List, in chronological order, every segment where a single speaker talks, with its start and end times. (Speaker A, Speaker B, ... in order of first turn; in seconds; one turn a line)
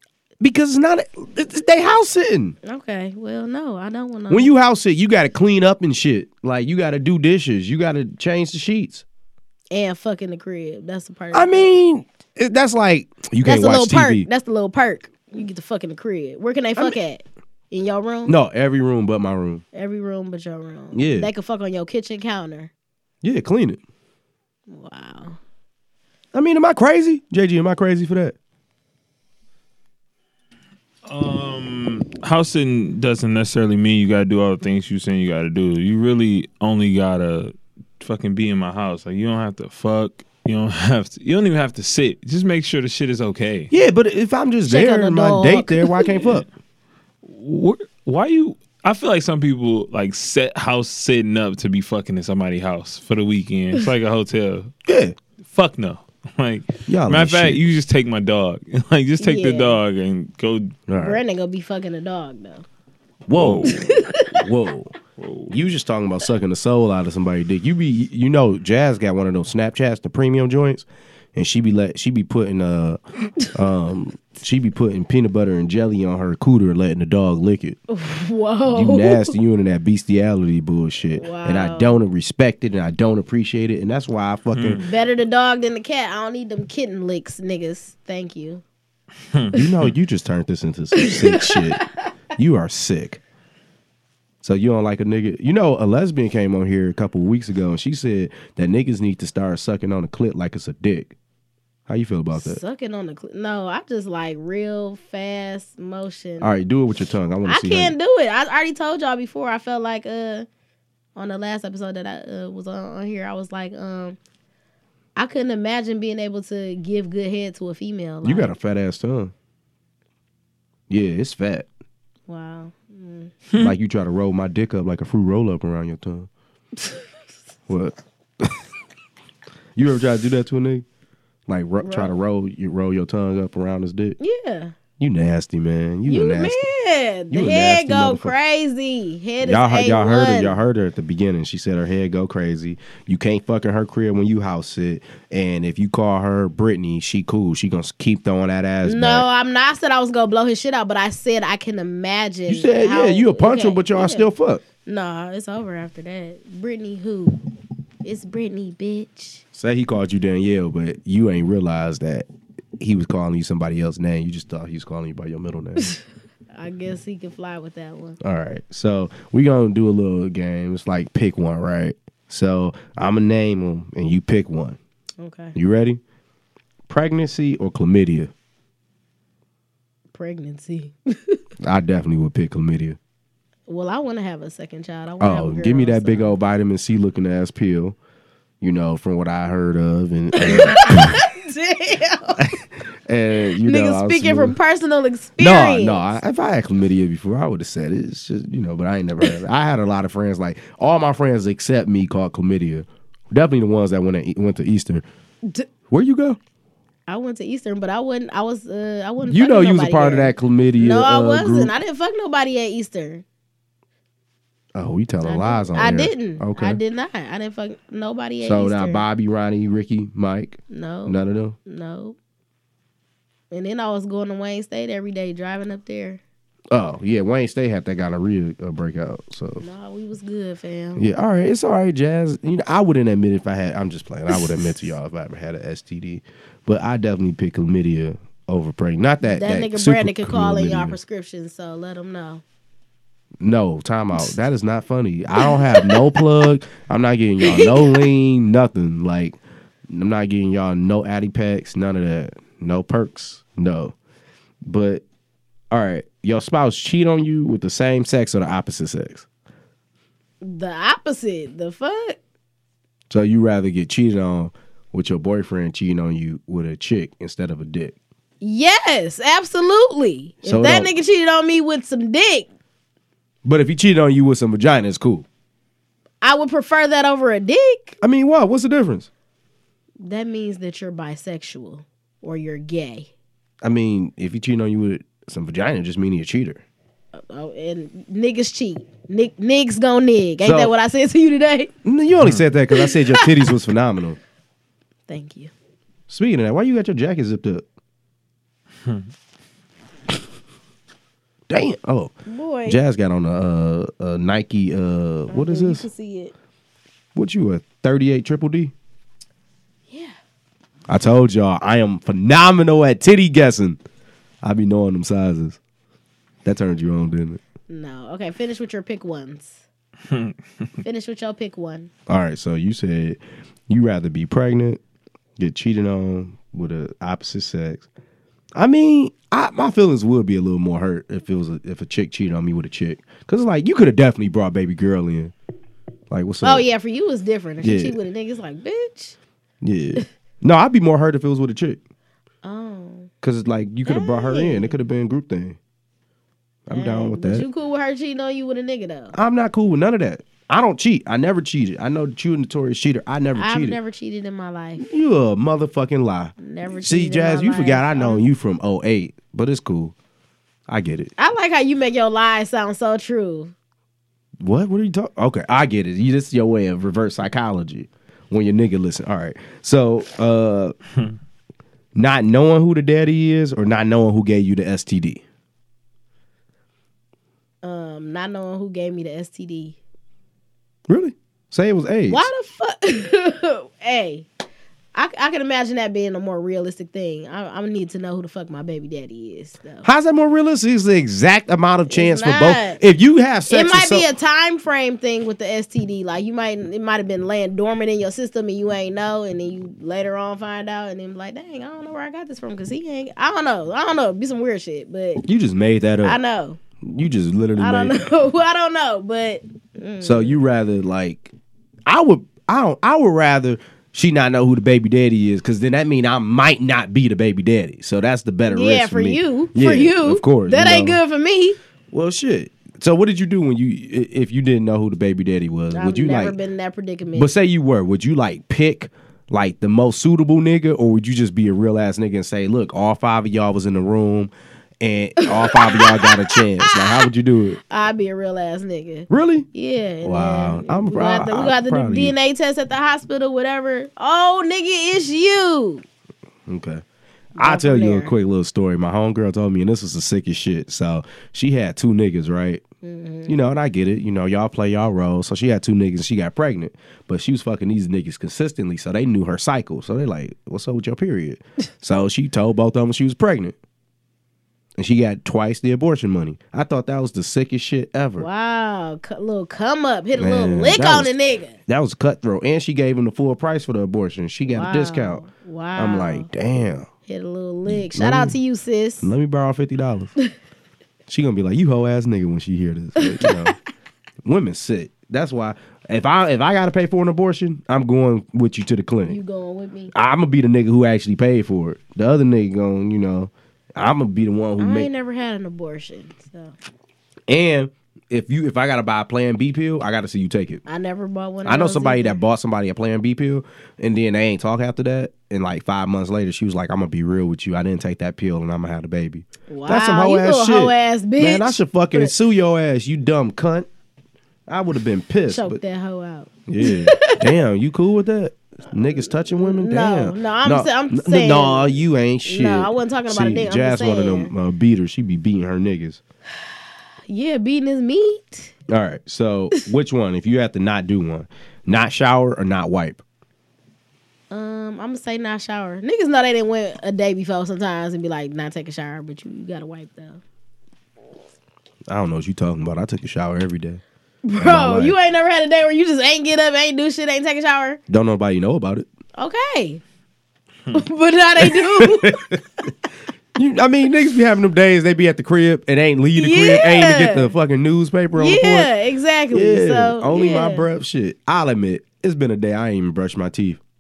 Speaker A: 0.4-2.6
Speaker B: 2.6-4.5
Speaker A: 4.3-9.1
Speaker B: 9.7-11.7
Speaker A: 11.3-14.3
Speaker B: 13.4-18.4
Speaker A: 18.3-19.6
Speaker B: 19.7-22.7
Speaker A: 20.9-21.3
Speaker A: 23.2-23.8
Speaker B: 24.7-25.4
Speaker A: 26.3-28.4
Speaker C: 31.1-43.7
Speaker A: 43.7-46.5
Speaker B: 44.7-46.3
Speaker C: 47.2-54.7
Speaker A: 54.9-55.2
Speaker C: 55.4-60.8
Speaker A: 56.9-57.7
Speaker B: 59.2-59.8
Speaker A: 60.9-61.2
Speaker B: 61.0-62.6
Speaker A: 63.3-64.9
Speaker C: 63.4-64.0
Speaker B: 63.6-64.5
Speaker C: 65.2-65.5
Speaker A: 65.5-73.0
Speaker A: 73.5-77.8
Speaker B: 77.9-79.3
Speaker A: 78.7-84.8
Speaker B: 81.2-82.0
Speaker C: 84.5-84.9
Speaker B: 84.8-88.6
Speaker C: 89.3-89.9
Speaker A: 89.5-91.8
Speaker B: 91.0-91.8
Speaker A: 92.4-93.2
Speaker A: 94.4-101.2
Speaker A: 101.9-102.6
Speaker B: 102.3-106.5
Speaker A: 106.4-107.9
Speaker B: 107.5-110.5
Speaker B: 111.2-114.2
Speaker B: 115.2-118.5
Speaker A: 118.2-119.3
Speaker A: 120.9-121.7
Speaker B: 122.3-123.3
Speaker A: 123.6-126.3
Speaker A: 127.7-128.6
Speaker A: 129.8-130.8
Speaker A: 131.5-134.2
Speaker B: 131.8-132.1
Speaker B: 134.2-134.8
Speaker A: 135.0-136.7
Speaker B: 136.1-140.6
Speaker A: 137.3-138.3
Speaker A: 139.4-149.3
Speaker B: 148.8-154.3
Speaker A: 152.5-154.6
Speaker B: 154.8-157.4
Speaker B: 158.0-159.4
Speaker A: 159.5-162.3
Speaker A: 162.8-166.0
Speaker B: 166.5-168.2
Speaker A: 168.2-174.8
Speaker B: 175.2-175.6
Speaker A: 175.6-176.0
Speaker A: 176.9-178.3
Speaker B: 180.1-181.4
Speaker A: 181.6-183.0
Speaker B: 183.7-186.4
Speaker A: 185.2-188.0
Speaker A: 188.6-191.2
Speaker B: 190.4-192.6
Speaker A: 192.4-194.6
Speaker B: 193.5-196.2
Speaker A: 195.4-205.0
Speaker A: 205.9-206.4
Speaker B: 207.1-213.2
Speaker A: 209.3-211.7
Speaker A: 214.8-216.8
Speaker B: 215.2-219.1
Speaker A: 218.4-221.6
Speaker B: 220.7-222.2
Speaker B: 223.5-226.2
Speaker A: 226.7-229.7
Speaker B: 229.6-231.1
Speaker A: 231.0-241.0
Speaker B: 239.2-242.4
Speaker A: 243.4-249.4
Speaker B: 245.4-246.2
Speaker B: 247.4-248.1
Speaker A: 249.9-253.9
Speaker A: 254.7-255.0
Speaker A: 255.7-259.3
Speaker B: 260.4-262.2
Speaker A: 263.1-267.9
Speaker B: 268.4-272.5
Speaker A: 270.4-270.9
Speaker A: 273.4-275.3
Speaker B: 276.2-278.0
Speaker A: 278.0-279.1
Speaker B: 280.0-283.1
Speaker A: 283.6-286.6
Speaker B: 287.1-291.7
Speaker A: 290.4-290.7
Speaker A: 291.8-294.2
Speaker B: 292.7-293.6
Speaker B: 295.1-295.5
Speaker A: 296.1-297.6
Speaker A: 301.5-302.1
Speaker B: 302.3-302.8
Speaker A: 302.7-305.9
Speaker B: 305.3-306.3
Speaker A: 307.1-308.7
Speaker B: 309.9-310.2
Speaker A: 310.9-313.8
Speaker A: 314.4-315.6
Speaker A: 316.4-317.4
Speaker B: 317.7-319.6
Speaker B: 320.8-321.9
Speaker A: 322.1-324.8
Speaker A: 325.4-327.9
Speaker A: 328.6-335.3
Speaker A: 336.1-336.7
Speaker B: 336.4-339.2
Speaker A: 337.6-338.0
Speaker A: 339.6-341.8
Speaker B: 342.4-343.1
Speaker A: 343.2-345.6
Speaker B: 343.9-344.8
Speaker A: 346.7-347.5
Speaker B: 346.7-349.2
Speaker A: 349.1-353.8
Speaker B: 353.4-354.9
Speaker A: 354.8-359.9
Speaker B: 356.4-358.2
Speaker A: 360.7-361.1
Speaker B: 361.2-363.5
Speaker A: 364.4-370.8
Speaker A: 372.0-375.2
Speaker B: 377.6-379.8
Speaker A: 380.9-382.3
Speaker B: 382.1-384.3
Speaker B: 384.9-389.9
Speaker A: 389.8-394.1
Speaker B: 391.9-392.8
Speaker B: 393.5-405.2
Speaker A: 405.2-406.2
Speaker B: 406.0-406.6
Speaker A: 406.8-408.0
Speaker B: 407.6-410.4
Speaker A: 410.0-411.3
Speaker A: 411.9-421.0
Speaker B: 418.5-421.6
Speaker A: 421.9-426.4
Speaker B: 425.7-427.3
Speaker A: 427.1-437.6
Speaker B: 435.2-437.1
Speaker B: 437.7-445.9
Speaker A: 439.1-439.5
Speaker A: 440.0-442.1
Speaker A: 446.5-446.8
Speaker B: 447.4-448.1
Speaker A: 447.4-452.6
Speaker B: 452.8-453.3
Speaker A: 453.3-463.6
Speaker A: 464.8-468.3
Speaker B: 468.2-471.6
Speaker A: 470.2-471.1
Speaker A: 471.7-475.2
Speaker B: 474.5-476.3
Speaker A: 475.8-476.9
Speaker B: 477.1-479.1
Speaker A: 477.7-478.4
Speaker A: 479.0-480.1
Speaker A: 481.1-483.6
Speaker B: 483.0-483.5
Speaker A: 484.2-489.2
Speaker B: 489.1-489.9
Speaker A: 489.9-494.9
Speaker B: 494.6-496.5
Speaker A: 497.3-500.6
Speaker B: 500.7-502.2
Speaker A: 501.4-513.7
Speaker B: 509.5-512.1
Speaker A: 514.5-515.6
Speaker B: 515.3-517.4
Speaker A: 516.5-526.0
Speaker B: 519.0-524.3
Speaker B: 527.1-528.5
Speaker A: 528.7-533.0
Speaker B: 534.3-540.2
Speaker A: 541.9-543.8
Speaker B: 544.2-547.8
Speaker A: 544.4-545.0
Speaker A: 547.9-548.9
Speaker B: 549.2-549.8
Speaker B: 550.7-552.4
Speaker A: 551.4-552.4
Speaker A: 553.4-558.7
Speaker B: 556.2-557.3
Speaker B: 558.1-560.7
Speaker A: 559.3-563.6